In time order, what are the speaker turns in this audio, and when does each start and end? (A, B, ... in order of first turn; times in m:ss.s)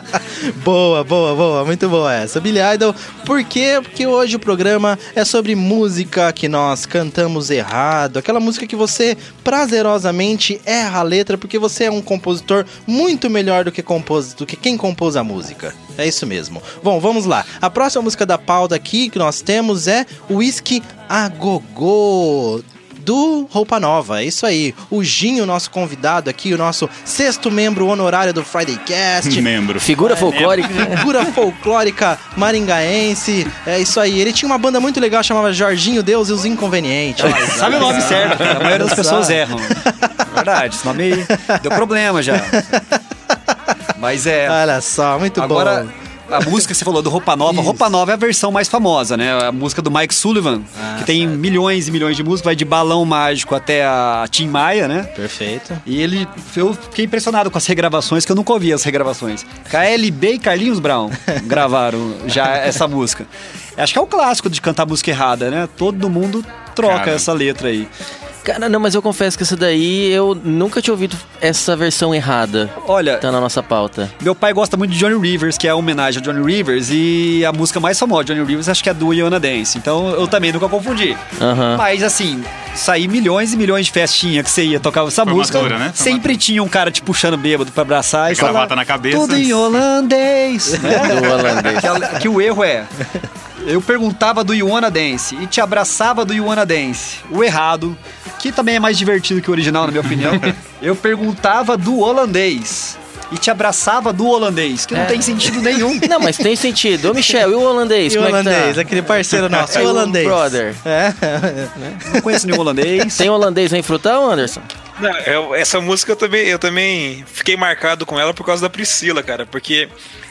0:00.4-0:29.5 A
0:29.2-0:29.9 B
0:29.8-0:31.1 C
0:30.0-0:40.2 A
0:30.2-0:30.7 D
0:37.2-0:42.6 D
0:41.3-0:43.0 A
0:44.0-0:44.6 D
0:44.4-0:46.6 A
0:45.4-0:55.1 D
0:47.4-0:47.9 A
0:50.7-0:51.4 A
0:55.1-0:55.8 A
0:55.8-1:07.9 D
1:06.8-1:07.3 B
1:08.4-1:14.1 C
1:12.8-1:13.2 D
1:14.2-1:32.9 D
1:21.4-1:21.8 C
1:25.2-1:26.4 B
1:28.3-1:29.6 B
1:30.8-1:31.7 A
1:30.9-1:31.9 C
1:33.6-1:46.3 D
1:44.9-1:45.3 C
1:45.9-1:48.9 C
1:48.1-1:52.2 A
1:49.6-1:50.8 C
1:51.8-1:52.0 C
1:52.0-1:53.3 D
1:53.1-1:54.7 C
1:55.0-1:59.9 E